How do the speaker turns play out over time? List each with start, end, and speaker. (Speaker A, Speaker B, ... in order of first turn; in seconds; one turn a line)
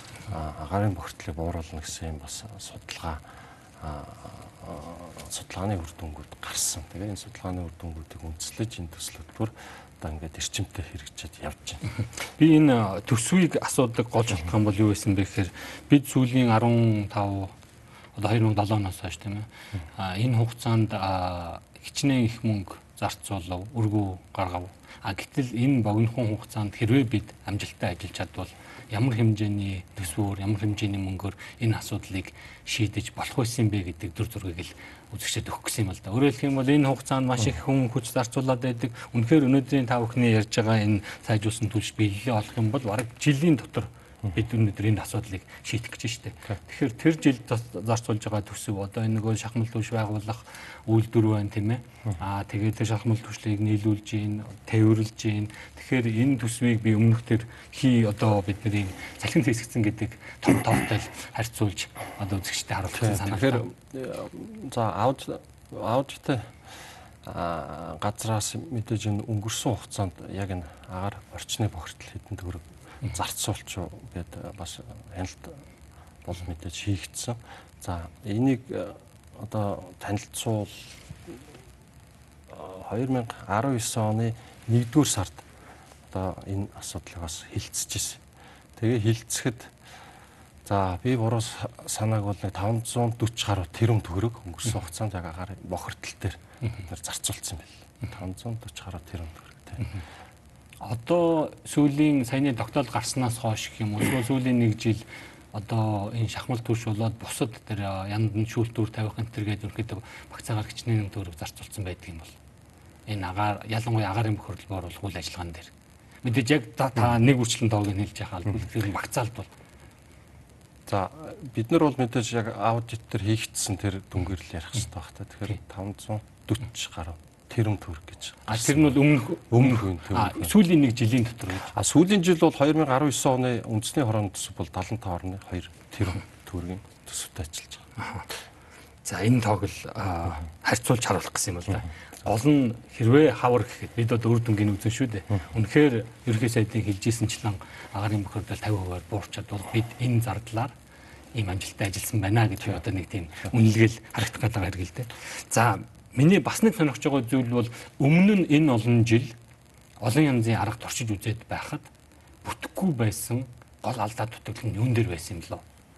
Speaker A: 0.3-3.2
Speaker A: 3.8-11.8
Speaker B: 12.0-17.5
Speaker B: 18.1-63.6
Speaker A: 62.9-66.6
Speaker A: 67.2-75.6
Speaker A: 76.2-81.4
Speaker A: 82.5-85.5
Speaker A: 86.1-88.2
Speaker A: 88.8-89.8
Speaker A: 90.6-99.9
Speaker B: 100.8-112.3
Speaker B: 113.1-115.7
Speaker B: 116.2-119.5
Speaker A: 120.8-130.6
Speaker B: 128.5-131.7
Speaker A: 131.6-137.8
Speaker B: 138.0-138.2
Speaker B: 139.0-150.7
Speaker B: 151.3-159.3
Speaker B: 160.0-161.9
Speaker B: 162.4-165.6